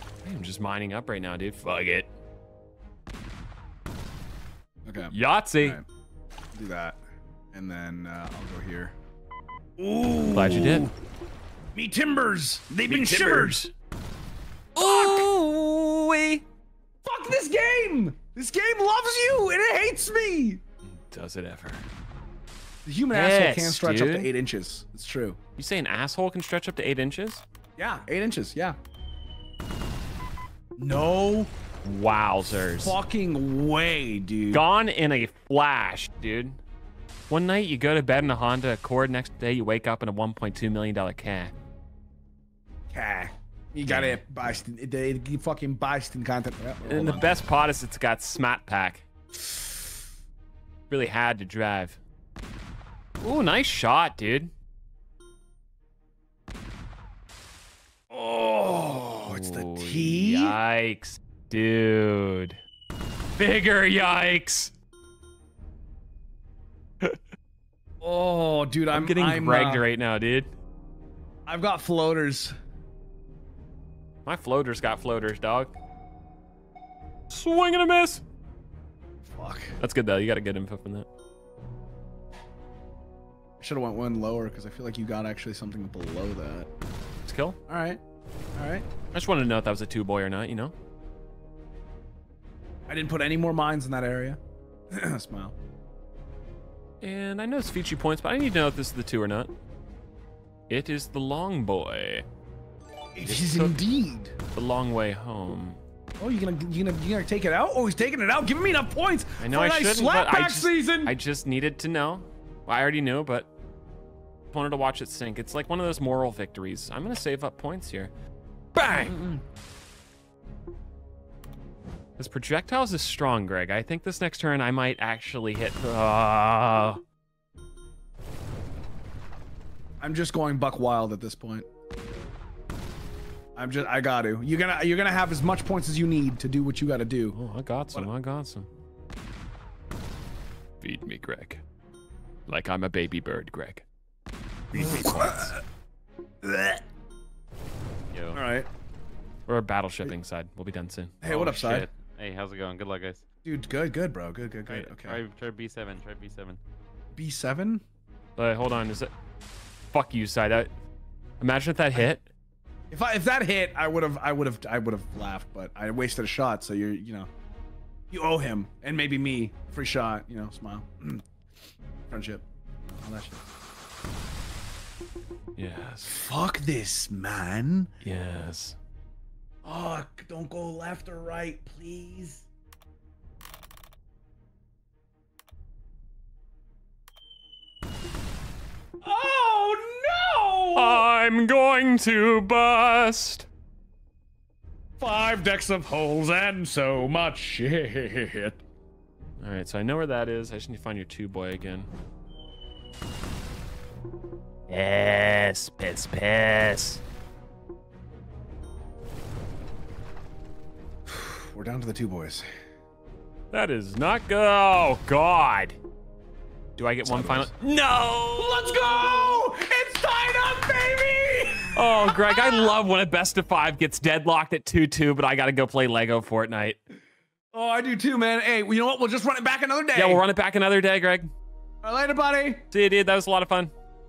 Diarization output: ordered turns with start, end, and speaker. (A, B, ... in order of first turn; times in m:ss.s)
0:00.2-0:02.1 A
0:04.8-0:05.8 B
0:05.1-0:05.8 A
0:06.5-0:07.0 B
0:07.5-0:09.0 B
0:09.8-0:11.0 B
0:10.3-0:10.9 A
0:11.7-0:13.6 B
0:12.9-0:13.7 A
0:14.7-0:16.4 A
0:14.8-0:15.3 B
0:17.0-0:20.6 B
0:20.8-0:21.9 A
0:22.8-0:25.4 B
0:23.1-0:24.3 A
0:25.6-0:27.4 A
0:27.8-0:28.8 B
0:30.8-0:31.5 B
0:31.8-0:33.0 A
0:32.8-0:34.6 B
0:34.5-0:36.6 A
0:37.3-0:41.5 A
0:42.9-0:47.3 B
0:43.8-0:44.2 A
0:46.8-0:49.0 A
0:50.9-0:52.0 A
0:53.2-0:54.5 A
0:58.1-1:00.6 B
0:59.3-1:02.6 A
1:03.4-1:04.7 A
1:08.0-1:09.9 B
1:08.9-1:10.5 A
1:11.4-1:12.5 B
1:14.3-1:15.8 A
1:17.3-1:18.2 A
1:19.2-1:19.8 B
1:19.8-1:21.1 A
1:23.6-1:26.7 B
1:27.3-1:27.6 A
1:27.7-1:28.0 B
1:28.6-1:28.9 B
1:29.1-1:30.7 A
1:32.9-1:35.6 B
1:37.0-1:39.5 A
1:40.7-1:42.3 A
1:43.1-1:44.3 B
1:43.2-1:43.8 A
1:44.6-1:45.8 A
1:46.2-1:51.2 B
1:49.4-1:53.5 A
1:54.5-1:58.1 A
1:58.7-1:59.2 A
1:59.0-1:59.4 B
2:02.2-2:07.0 A
2:10.0-2:11.7 B
2:13.6-2:17.4 B
2:17.3-2:18.7 A
2:20.8-2:21.6 A
2:22.5-2:23.8 A
2:24.7-2:25.6 A
2:24.7-2:25.6 B
2:26.4-2:26.8 B
2:28.1-2:28.4 C
2:28.3-2:28.7 B
2:29.5-2:31.2 A
2:31.2-2:31.9 B
2:31.2-2:33.2 C
2:33.4-2:35.2 B
2:34.7-2:36.6 C
2:37.1-2:37.8 B
2:38.4-2:39.1 A
2:39.9-2:40.7 A
2:41.4-2:42.3 A
2:42.9-2:47.3 B
2:48.1-2:51.2 B
2:52.1-2:53.5 B
2:55.6-2:56.2 A
2:56.1-2:57.9 B
2:58.0-2:58.8 A
2:59.6-3:02.5 B
3:09.0-3:11.0 B
3:10.7-3:13.5 A
3:15.0-3:18.6 B
3:19.4-3:21.9 A
3:24.7-3:27.0 A
3:31.1-3:32.4 B
3:33.5-3:35.8 A
3:36.8-3:38.6 A
3:37.0-3:37.5 B
3:38.3-3:42.7 B
3:41.7-3:46.8 A
3:47.5-3:50.2 B
3:49.9-3:51.3 A
3:51.8-3:52.7 B
3:52.7-3:53.7 A